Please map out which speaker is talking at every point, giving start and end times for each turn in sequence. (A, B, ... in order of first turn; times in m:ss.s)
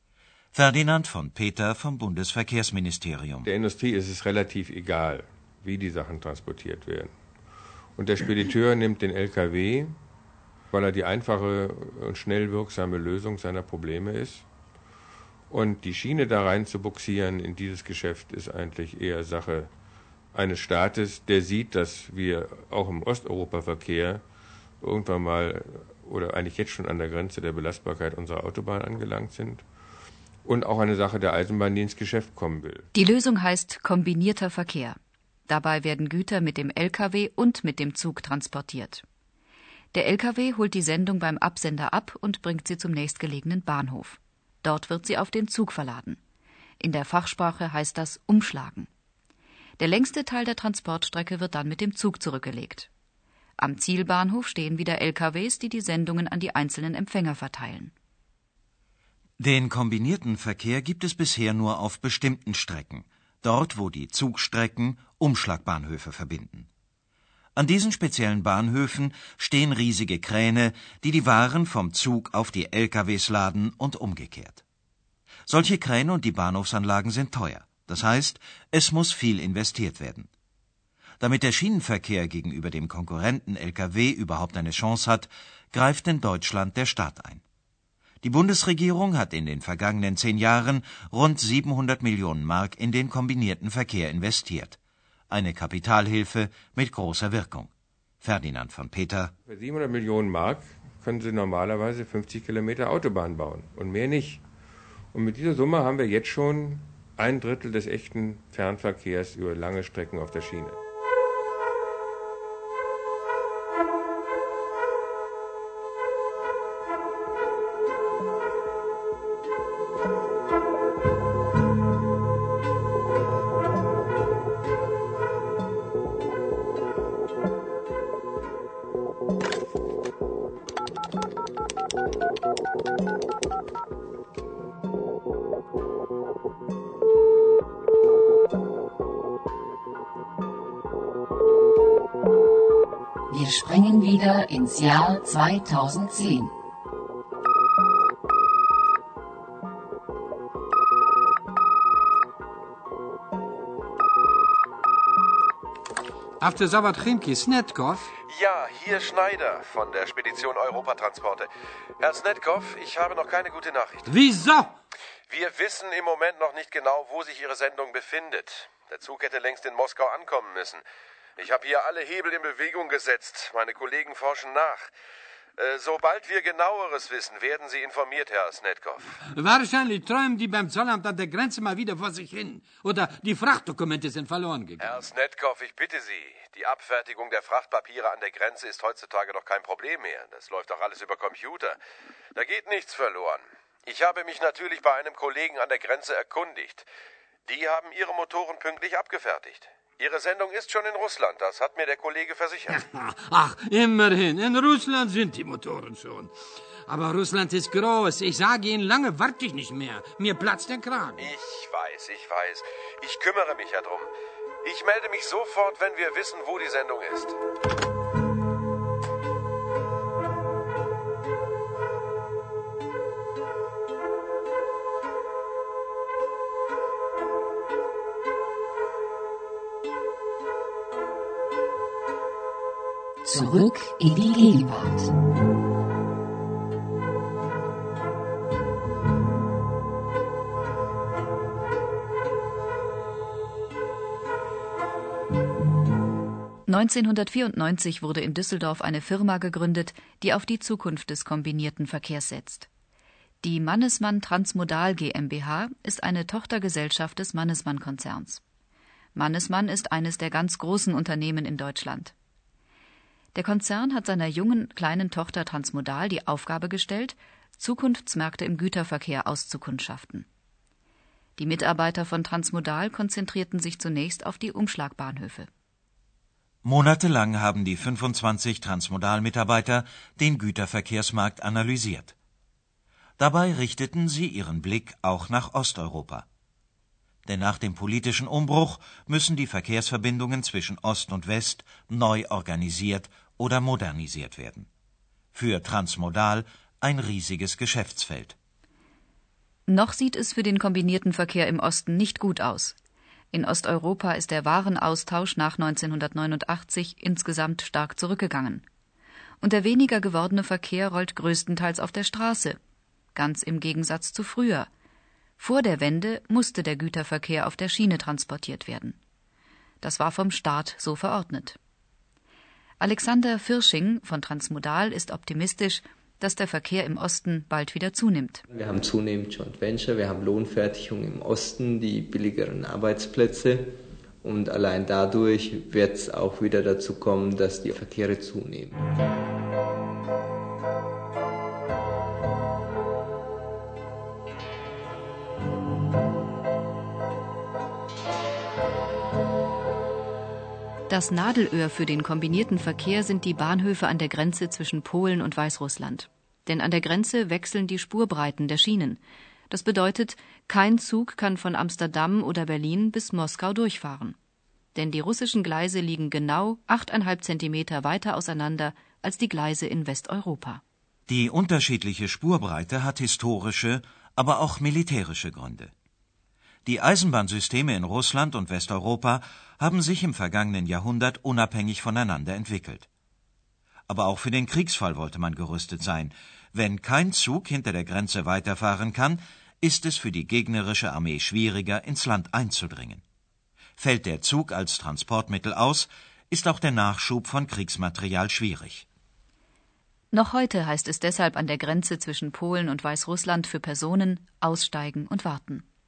0:00.5-0:03.5 A
0:03.4-0:07.1 B
0:08.0-0:09.9 B
0:10.7-0:14.4 B
0:15.5-0:19.7 B
0:20.3-0:24.2 B
0:24.8-0:29.6 B
0:30.4-0:32.9 B
0:32.9-0:39.0 C
0:39.9-0:46.2 C
0:46.8-0:48.9 C
0:49.8-0:52.9 C
0:53.6-0:57.9 C
0:59.4-1:06.7 A
1:07.6-1:14.6 A
1:15.5-1:20.3 A
1:21.2-1:27.4 A
1:28.2-1:34.8 A
1:35.3-1:37.7 A
1:38.2-1:39.3 A
1:39.5-1:44.4 B
1:45.1-1:50.8 B
2:23.3-2:26.5 D
2:36.4-2:38.1 E
2:38.3-2:44.1 F
2:44.1-2:44.7 E
2:45.3-2:50.8 F
2:51.4-2:54.9 F
2:55.6-2:59.2 F
2:59.3-3:05.0 E
3:04.8-3:11.8 F
3:12.3-3:16.9 F
3:17.4-3:22.8 F
3:22.7-3:26.3 E
3:26.9-3:31.2 E
3:31.2-3:34.1 F
3:34.6-3:37.4 F
3:53.2-3:55.1 D
4:06.7-4:12.7 C
4:13.4-4:18.4 C
4:19.1-4:22.1 C
4:23.3-4:30.2 C
4:31.4-4:35.5 C
4:36.6-4:42.1 A
4:43.2-4:46.2 A
4:47.2-4:54.7 A
4:55.3-4:58.4 A
4:59.7-5:02.8 C
5:03.3-5:08.6 C
5:09.4-5:12.6 C
5:13.1-5:14.7 C
5:15.4-5:19.0 C
5:19.8-5:21.6 C
5:22.8-5:28.4 C
5:28.5-5:38.8 G
5:50.9-5:59.0 C
5:59.5-6:04.1 C
6:04.7-6:10.6 C
6:11.1-6:15.7 A
6:16.6-6:22.9 A
6:23.9-6:33.0 A
6:33.8-6:38.8 A
6:40.1-6:45.6 C